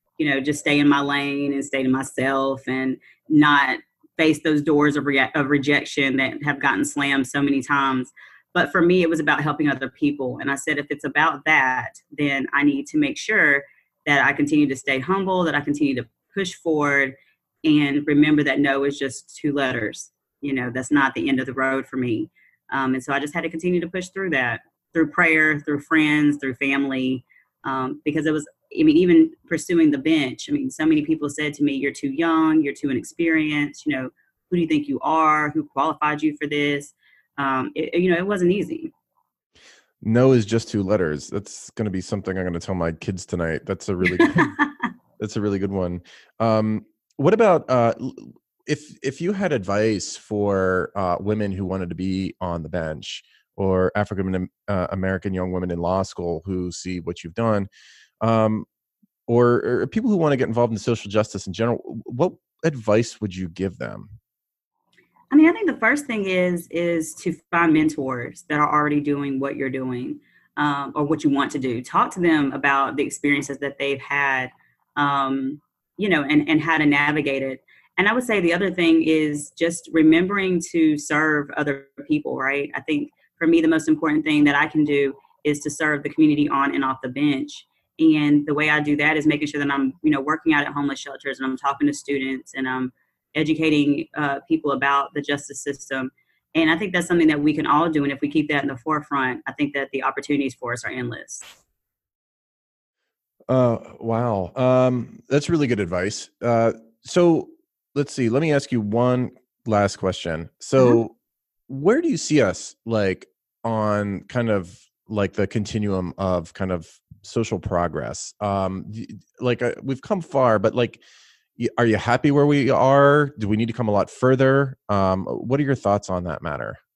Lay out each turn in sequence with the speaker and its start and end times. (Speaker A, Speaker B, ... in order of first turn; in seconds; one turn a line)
Speaker A: 0.2-38.9
Speaker B: 40.0-44.5
Speaker A: 44.1-44.7
Speaker B: 45.2-57.7
Speaker B: 58.2-58.7
Speaker B: 59.3-64.1
Speaker A: 65.3-101.5
Speaker B: 103.5-111.1
Speaker B: 111.7-121.0
Speaker B: 121.6-126.8